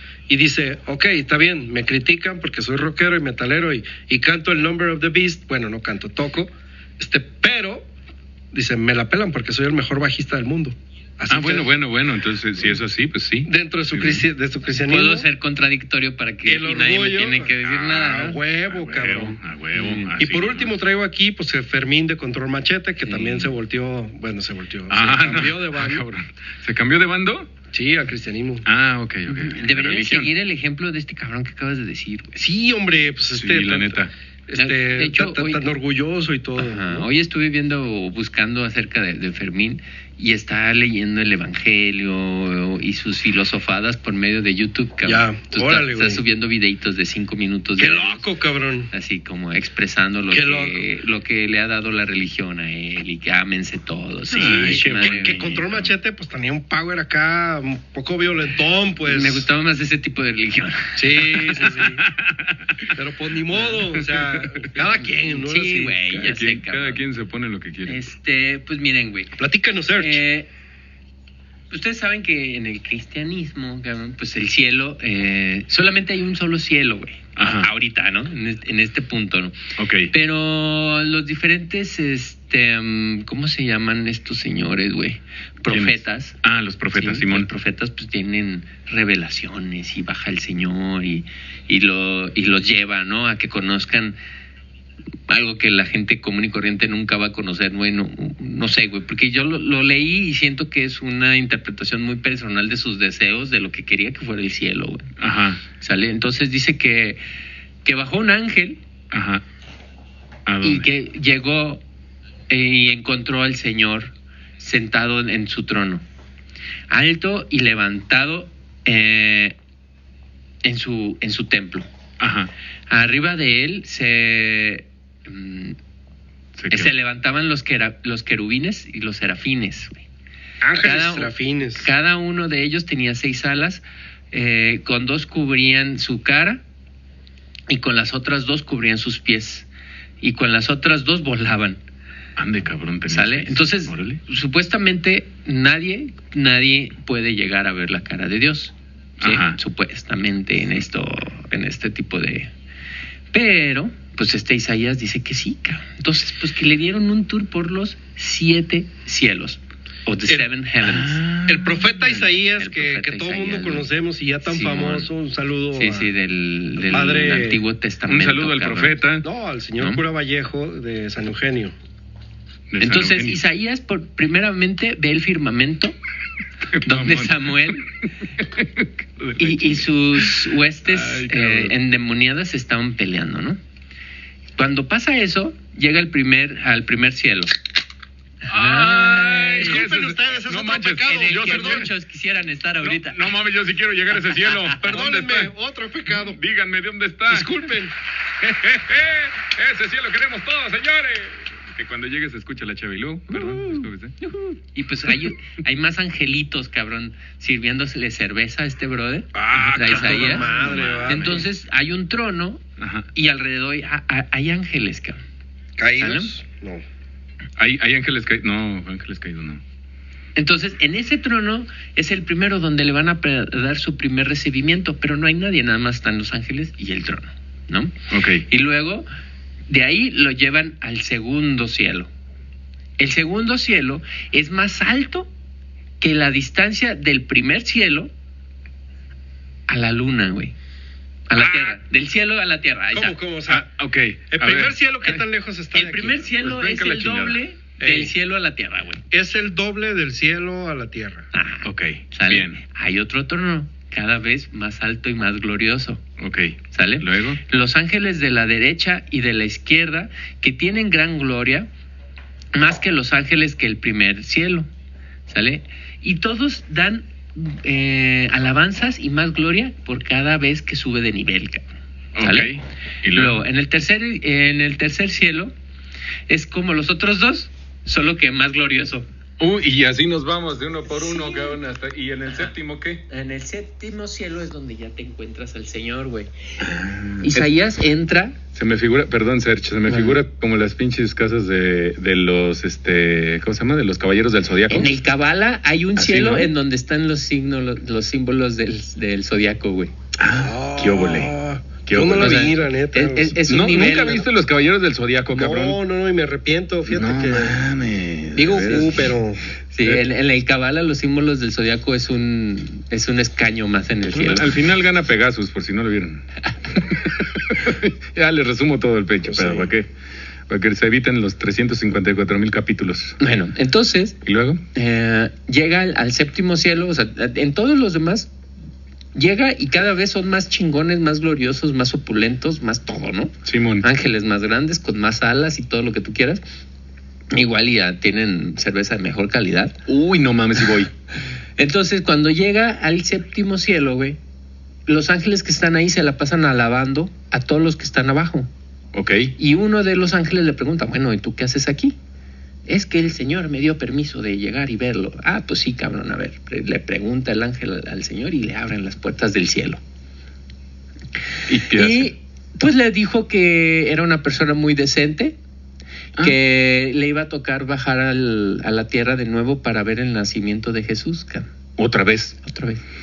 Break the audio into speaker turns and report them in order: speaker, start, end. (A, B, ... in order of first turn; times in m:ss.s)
0:00.3-0:07.9 A
0:08.5-0:11.7 A
0:11.3-0:14.2 B
0:13.4-0:15.3 A
0:14.8-0:18.4 C
0:16.4-0:19.4 A
0:18.7-0:20.7 B
0:19.8-0:20.1 C
0:20.2-0:26.0 A
0:23.0-0:23.5 C
0:24.9-0:27.5 B
0:27.7-0:28.6 A
0:28.6-0:30.3 B
0:29.3-0:32.4 C
0:32.4-0:37.1 A
0:33.3-0:34.1 B
0:34.6-0:35.6 C
0:36.6-0:48.2 C
0:45.0-0:46.2 A
0:47.8-0:48.9 A
0:48.9-0:55.4 C
0:50.3-0:50.8 A
0:54.3-0:55.9 B
0:54.3-0:59.4 A
0:59.0-1:01.6 C
1:01.0-1:02.0 A
1:01.8-1:02.6 B
1:02.9-1:06.0 A
1:04.1-1:04.4 B
1:05.2-1:07.0 C
1:06.1-1:08.0 B
1:07.9-1:09.4 C
1:09.4-1:10.2 A
1:10.0-1:10.5 C
1:11.7-1:19.6 C
1:17.4-1:17.7 B
1:19.8-1:20.1 B
1:20.1-1:26.4 C
1:25.7-1:27.5 B
1:26.9-1:34.2 C
1:35.3-1:45.1 C
1:45.2-1:45.6 B
1:45.8-1:47.2 C
1:47.8-1:48.8 C
1:49.1-1:49.4 B
1:50.4-1:50.9 B
1:50.6-1:51.8 C
1:52.5-1:56.0 C
1:56.9-1:59.6 C
2:00.6-2:01.9 C
2:02.2-2:02.5 B
2:02.9-2:05.8 C
2:06.6-2:06.9 B
2:06.7-2:10.0 C
2:10.6-2:11.9 A
2:10.8-2:16.6 C
2:17.7-2:19.7 C
2:20.2-2:21.8 C
2:22.4-2:24.2 B
2:23.1-2:32.5 C
2:29.2-2:29.6 B
2:33.3-2:41.2 C
2:40.8-2:42.2 B
2:41.5-2:46.1 A
2:42.4-2:43.9 C
2:44.4-2:45.1 C
2:45.7-2:49.0 C
2:46.8-2:47.6 A
2:48.1-2:49.2 B
2:49.2-2:51.7 A
2:52.7-2:53.4 B
2:52.8-2:56.0 C
2:56.7-2:57.8 B
2:56.8-2:57.9 C
2:58.4-3:01.7 B
2:59.4-3:03.6 C
3:04.6-3:07.5 C
3:08.4-3:09.8 C
3:08.5-3:11.9 B
3:09.6-3:11.9 A
3:11.0-3:13.2 C
3:12.8-3:15.5 B
3:14.4-3:14.7 C
3:14.8-3:16.4 A
3:16.1-3:17.6 B
3:17.3-3:17.9 A
3:18.4-3:24.2 B
3:23.3-3:30.5 C
3:29.3-3:31.4 A
3:29.5-3:31.4 B
3:31.0-3:32.6 C
3:32.8-3:33.1 B
3:33.1-3:35.2 C
3:35.8-3:36.8 A
3:36.0-3:36.3 C
3:37.6-3:39.6 B
3:40.4-3:47.9 C
3:48.1-3:48.4 B
3:48.5-3:49.1 C
3:49.7-3:52.1 C
3:53.0-3:55.3 C
3:56.0-3:58.1 C
3:59.7-4:00.5 C
4:01.3-4:03.2 C
4:02.9-4:03.7 A
4:03.5-4:05.2 B
4:04.3-4:06.3 A
4:05.7-4:09.0 C
4:06.4-4:07.4 B
4:07.8-4:08.1 A
4:09.1-4:11.3 A
4:11.3-4:16.0 C
4:11.6-4:12.6 B
4:16.2-4:17.4 B
4:16.7-4:21.7 C
4:22.5-4:24.7 C
4:25.3-4:31.6 C
4:32.2-4:33.4 B
4:32.2-4:32.5 C
4:33.1-4:35.5 C
4:36.3-4:39.1 C
4:39.4-4:43.0 B
4:40.9-4:41.6 C
4:43.1-4:46.3 C
4:46.6-4:47.5 B
4:47.2-4:48.4 C
4:48.5-4:54.9 B
4:49.9-4:50.2 C
4:54.7-4:59.9 C
4:56.0-4:56.5 B
5:00.2-5:01.3 B
5:00.3-5:03.4 A
5:01.8-5:02.6 B
5:02.2-5:04.2 C
5:03.5-5:05.8 B
5:05.3-5:07.7 A
5:06.9-5:09.1 B
5:08.3-5:09.4 A
5:09.7-5:14.5 C
5:14.1-5:19.9 B
5:19.2-5:19.7 A
5:20.5-5:23.2 B
5:23.2-5:24.2 C
5:24.2-5:24.6 B
5:24.7-5:28.3 C
5:29.1-5:36.4 C
5:33.4-5:33.8 B
5:37.3-5:39.8 C
5:39.9-5:40.9 B
5:41.6-5:44.2 C
5:44.9-5:48.5 C
5:48.9-5:49.3 B
5:49.4-5:51.9 C
5:52.7-5:59.8 C
6:01.5-6:02.1 B
6:01.7-6:05.4 C
6:06.2-6:11.5 C
6:11.8-6:12.4 B
6:12.4-6:12.8 C